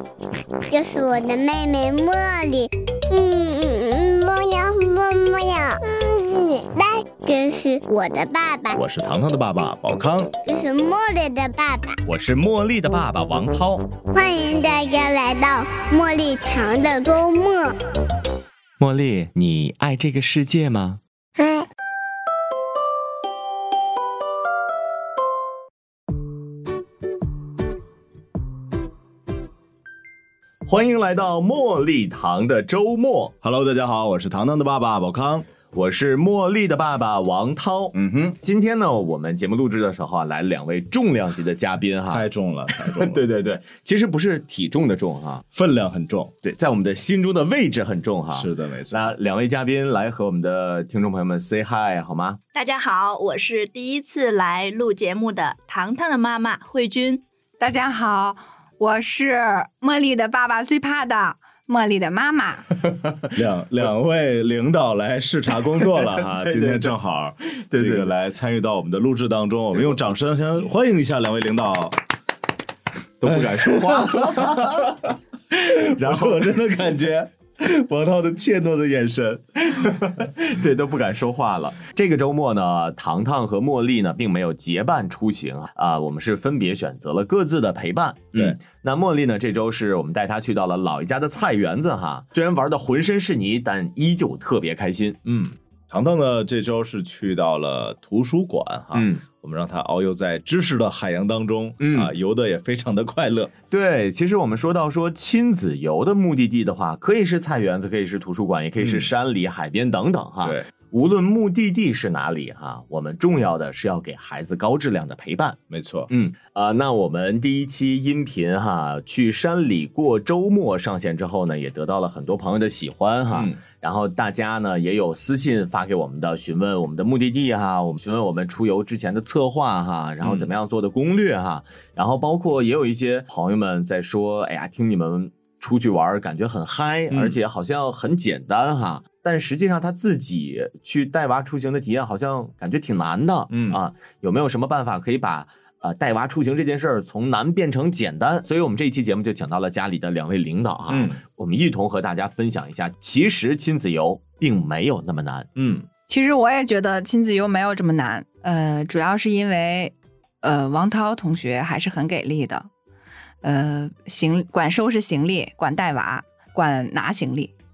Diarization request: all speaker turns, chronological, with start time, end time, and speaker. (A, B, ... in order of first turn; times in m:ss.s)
0:00.7-0:08.8 A
0:08.7-0:10.3 B
0:10.4-0:12.0 A
0:12.0-0:13.9 B
0:14.0-0:17.7 A
0:18.8-0:21.0 B
0:21.4-0:21.7 A
0:30.6-0:33.3 B
0:33.4-0:35.5 C
0:35.7-0:45.4 B
0:37.9-0:38.4 C
0:42.1-0:43.2 C
0:45.5-0:46.3 C
0:46.4-0:52.4 B
0:48.3-0:49.1 C
0:52.5-0:57.2 D
0:57.6-1:02.7 E
1:03.3-1:12.0 C
1:06.2-1:06.9 B
1:07.5-1:08.1 B
1:13.2-1:15.0 B
1:13.3-1:20.3 C
1:15.7-1:16.5 B
1:20.4-1:35.4 B
1:35.3-1:43.5 C
1:38.9-1:39.2 B
1:41.8-1:42.1 B
1:43.7-1:55.6 B
1:48.8-1:49.1 C
1:55.7-1:56.1 C
1:56.1-2:35.5 B
2:03.3-2:03.6 C
2:10.2-2:10.5 C
2:17.1-2:17.4 C
2:23.5-2:23.8 C
2:30.9-2:31.2 C
2:35.6-2:35.9 C
2:36.1-2:42.7 E
2:43.4-2:47.5 E